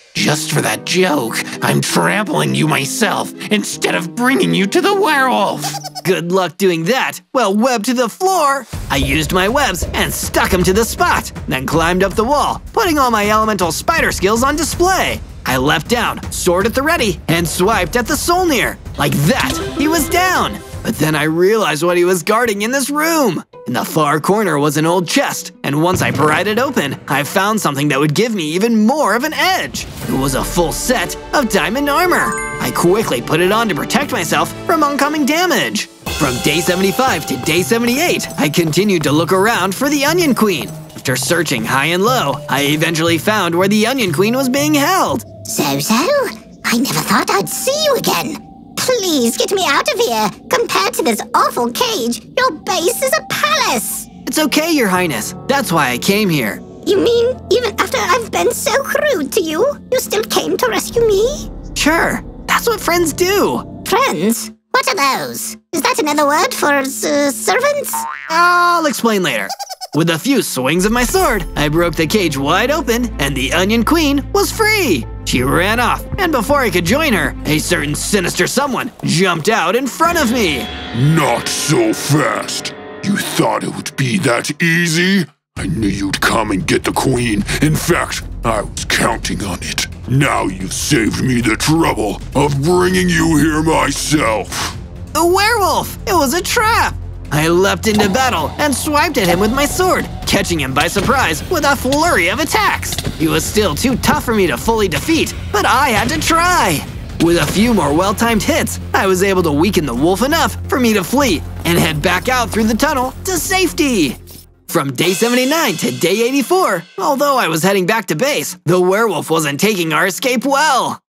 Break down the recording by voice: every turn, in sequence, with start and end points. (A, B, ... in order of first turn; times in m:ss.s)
0:00.1-0:05.8 A
0:06.0-0:45.2 B
0:45.4-0:54.1 C
0:54.2-0:56.6 B
0:56.8-1:01.5 C
1:01.8-1:03.7 B
1:03.9-1:08.1 C
1:08.3-1:20.7 B
1:20.9-1:34.8 D
1:35.1-1:54.2 B
1:54.7-2:01.0 B